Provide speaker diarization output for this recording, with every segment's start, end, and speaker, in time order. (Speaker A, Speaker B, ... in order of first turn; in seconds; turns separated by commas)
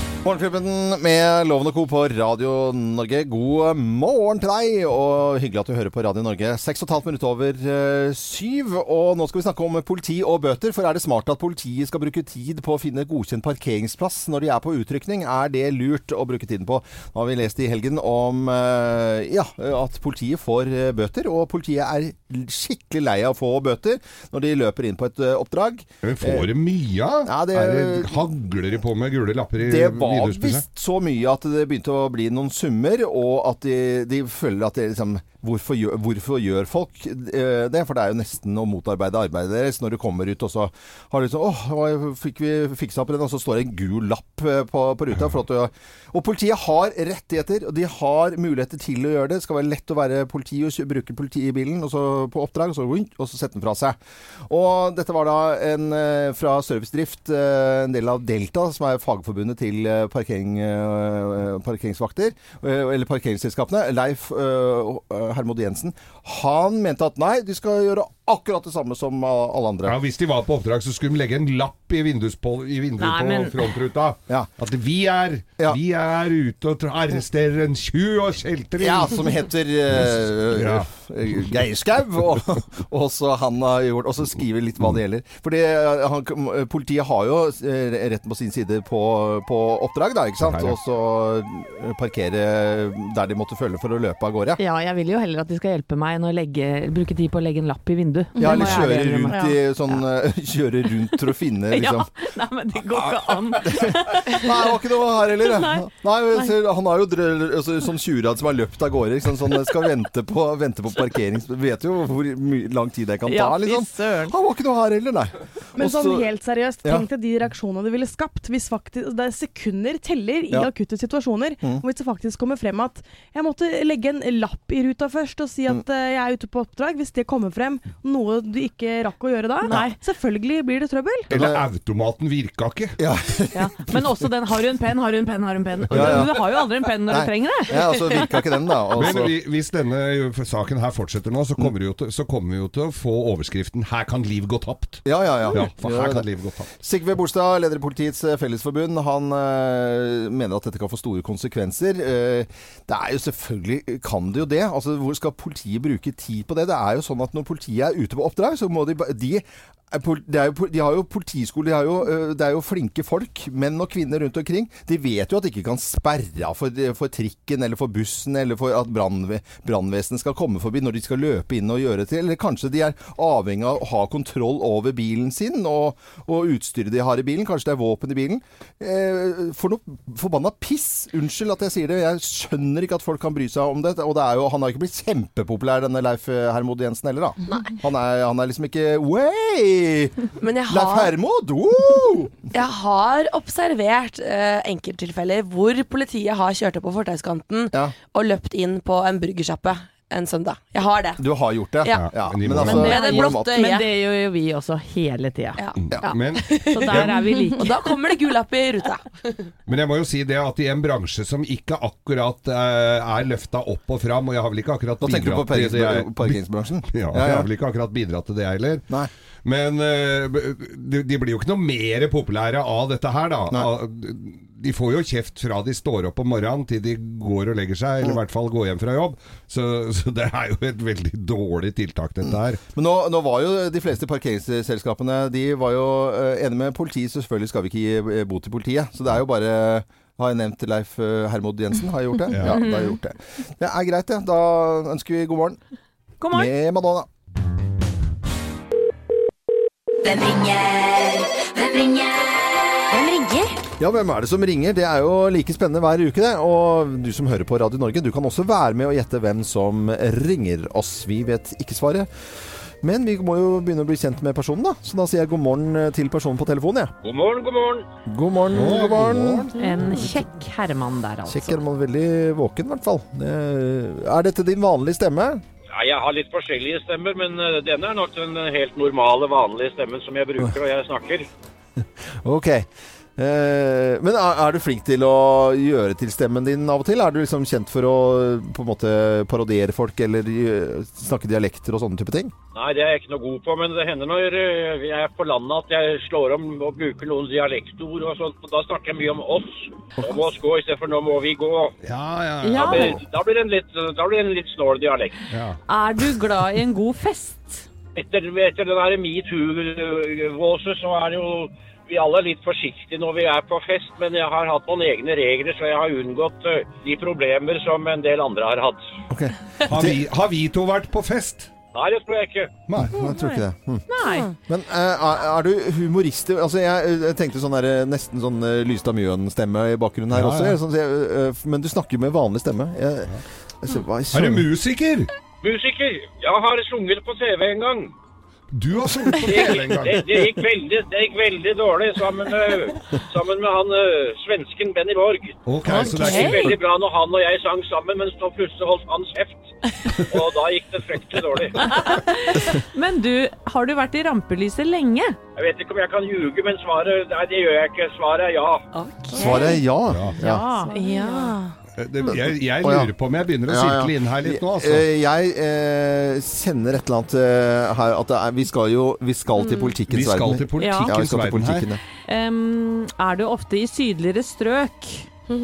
Speaker A: 0.2-26.5, Speaker B: 26.0-30.6, Speaker A: 27.2-28.2, Speaker A: 29.6-54.0, Speaker A: 54.5-70.0, Speaker B: 69.8-79.3, Speaker C: 73.0-73.7, Speaker A: 78.8-94.6, Speaker B: 79.9-81.5, Speaker B: 90.4-90.8, Speaker C: 94.6-100.0, Speaker D: 98.4-98.9, Speaker A: 98.4-102.1, Speaker C: 101.7-104.7, Speaker A: 102.9-116.2, Speaker C: 105.3-106.5, Speaker C: 113.2-114.3, Speaker D: 115.8-131.3, Speaker C: 129.6-130.0, Speaker A: 129.6-129.9, Speaker B: 131.3-133.0, Speaker A: 131.3-131.6, Speaker A: 133.0-134.0, Speaker C: 133.5-138.3, Speaker A: 135.9-136.4, Speaker B: 135.9-136.3, Speaker A: 137.1-139.3, Speaker B: 138.9-146.7, Speaker A: 145.0-146.3, Speaker A: 146.8-192.4, Speaker E: 187.4-187.7, Speaker E: 190.4-191.1, Speaker E: 192.5-201.2, Speaker A: 201.2-203.5, Speaker E: 201.8-203.9, Speaker B: 201.9-202.9, Speaker C: 202.7-205.6, Speaker E: 205.6-209.5, Speaker B: 205.9-207.1, Speaker C: 206.7-207.8, Speaker B: 209.7-218.8, Speaker A: 215.0-217.5, Speaker B: 219.4-232.6, Speaker A: 232.2-245.6, Speaker B: 242.3-242.6, Speaker C: 242.4-242.9, Speaker C: 246.2-246.5, Speaker A: 246.3-247.1, Speaker F: 250.0-252.2, Speaker E: 252.9-253.5, Speaker A: 253.8-262.1, Speaker A: 262.8-266.9, Speaker G: 267.0-267.9, Speaker A: 268.1-270.1, Speaker B: 268.5-269.6, Speaker C: 269.6-271.6, Speaker A: 271.3-275.4, Speaker G: 275.7-281.3, Speaker A: 281.8-292.3, Speaker G: 292.5-301.7, Speaker B: 301.8-303.0, Speaker C: 302.4-303.0, Speaker G: 302.6-305.2, Speaker B: 305.3-305.6, Speaker C: 305.7-307.6, Speaker G: 307.9-318.8, Speaker A: 319.1-320.0, Speaker B: 319.6-321.5, Speaker G: 321.7-322.5, Speaker B: 322.7-322.9, Speaker A: 322.8-323.9, Speaker C: 323.9-324.3, Speaker E: 324.0-324.3, Speaker A: 324.5-334.5, Speaker B: 330.1-330.6, Speaker B: 334.1-335.1, Speaker G: 335.4-337.9, Speaker B: 338.5-340.3, Speaker G: 339.2-351.8, Speaker B: 345.4-346.6, Speaker A: 345.6-345.9, Speaker C: 345.7-346.6, Speaker C: 351.6-355.2, Speaker G: 355.4-358.6, Speaker E: 358.7-359.6, Speaker C: 359.1-359.5, Speaker A: 359.1-360.4, Speaker B: 359.9-360.2, Speaker C: 360.2-361.4, Speaker D: 360.5-361.3, Speaker E: 360.6-361.4, Speaker B: 361.7-364.9, Speaker A: 362.6-362.9, Speaker A: 363.5-371.8, Speaker C: 369.4-369.7, Speaker B: 369.9-371.7, Speaker C: 370.6-370.9, Speaker C: 372.1-375.1